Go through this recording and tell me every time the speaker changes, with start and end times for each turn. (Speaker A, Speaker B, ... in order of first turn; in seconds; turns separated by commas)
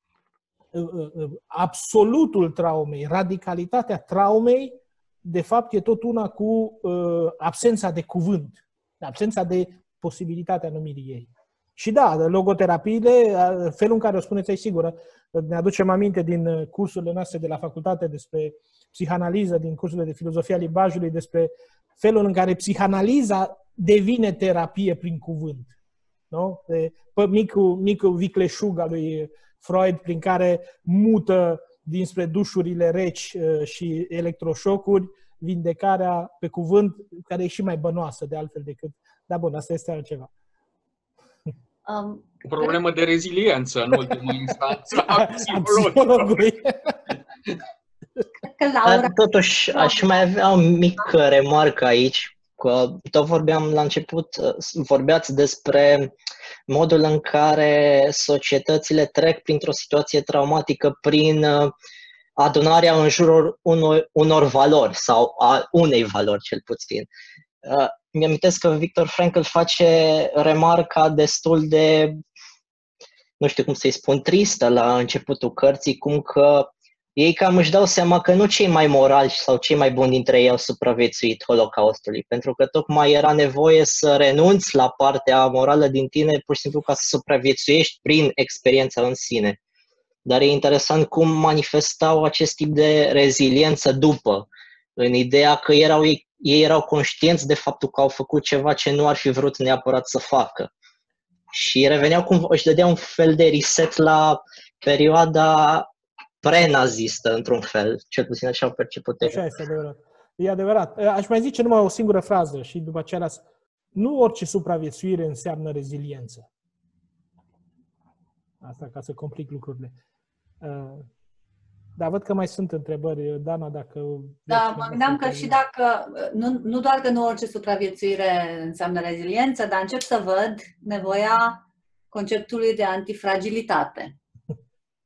Speaker A: 0.7-25.7, Speaker A: 26.3-40.3, Speaker B: 41.9-42.8, Speaker C: 42.5-46.5, Speaker A: 44.9-47.0, Speaker B: 48.4-49.2, Speaker D: 48.9-56.1, Speaker B: 49.7-50.2, Speaker D: 56.7-61.7, Speaker D: 62.4-67.1, Speaker D: 67.6-72.2, Speaker D: 73.4-89.6, Speaker D: 90.3-100.7, Speaker D: 101.5-105.9, Speaker D: 106.4-109.5, Speaker A: 109.2-113.4, Speaker A: 114.0-116.5, Speaker A: 118.6-120.0, Speaker A: 120.6-121.1, Speaker A: 122.0-125.6, Speaker B: 124.5-134.2